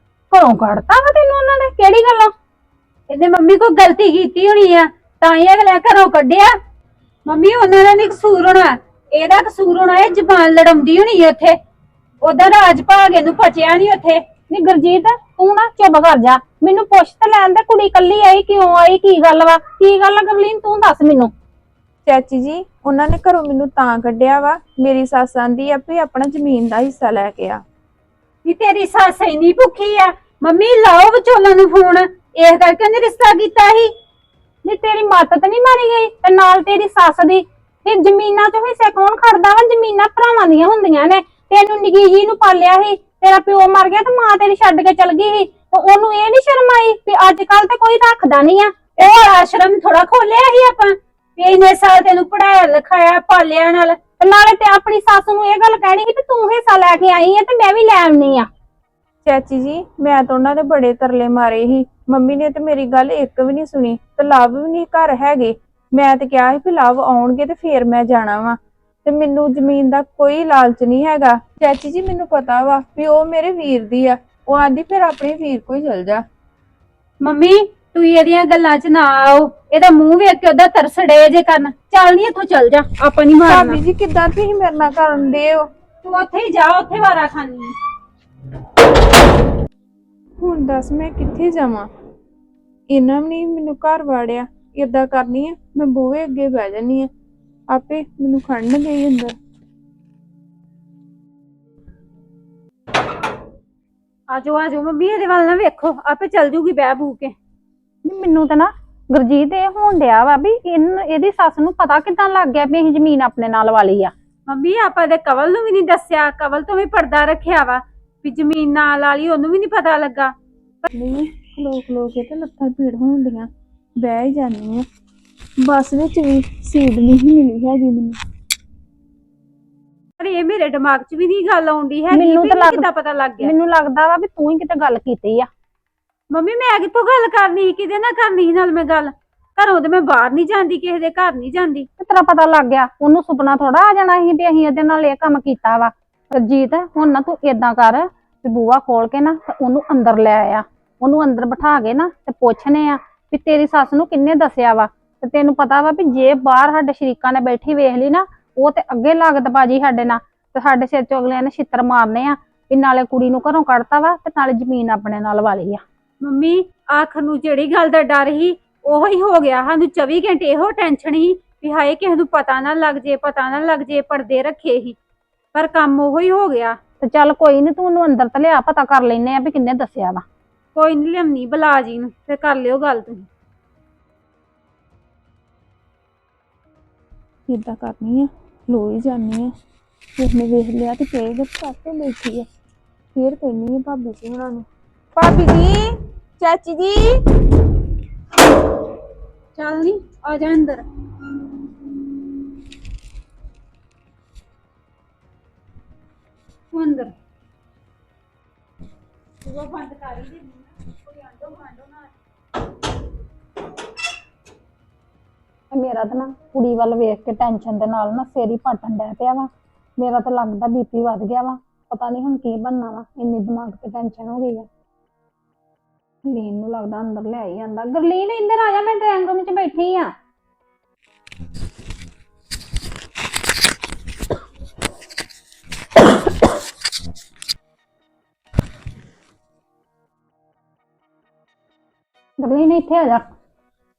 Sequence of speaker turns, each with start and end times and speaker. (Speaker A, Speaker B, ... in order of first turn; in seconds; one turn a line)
Speaker A: 0.3-2.3
Speaker B: 3.1-6.5
Speaker B: 7.2-11.6
Speaker B: 12.2-14.2
Speaker A: 14.5-21.3
Speaker C: 22.1-27.6
Speaker B: 28.4-33.9
Speaker A: 34.6-49.1
Speaker B: 49.0-54.0
Speaker A: 54.2-58.5
Speaker C: 59.2-76.2
Speaker B: 77.2-83.8
Speaker C: 83.5-85.7
Speaker B: 86.0-87.7
Speaker C: 90.4-91.9
Speaker C: 92.9-97.1
Speaker C: 97.7-99.4
Speaker B: 104.3-107.3
Speaker A: 108.0-114.1
Speaker B: 114.5-120.3
Speaker C: 120.9-124.8
Speaker C: 125.6-128.2
Speaker B: 130.2-133.5
Speaker A: 132.1-132.9
Speaker A: 133.4-135.5
Speaker B: 136.3-141.9
Speaker A: 142.0-165.8
Speaker B: 166.2-175.0
Speaker B: 175.5-176.8
Speaker A: 177.0-180.2
Speaker B: 180.8-183.3
Speaker C: 187.5-189.5
Speaker C: 190.2-192.5
Speaker C: 193.2-197.2
Speaker B: 199.6-200.8
Speaker B: 206.7-207.1
Speaker B: 209.4-212.1
Speaker A: 215.7-224.7
Speaker A: 226.2-230.1
Speaker A: 242.4-243.2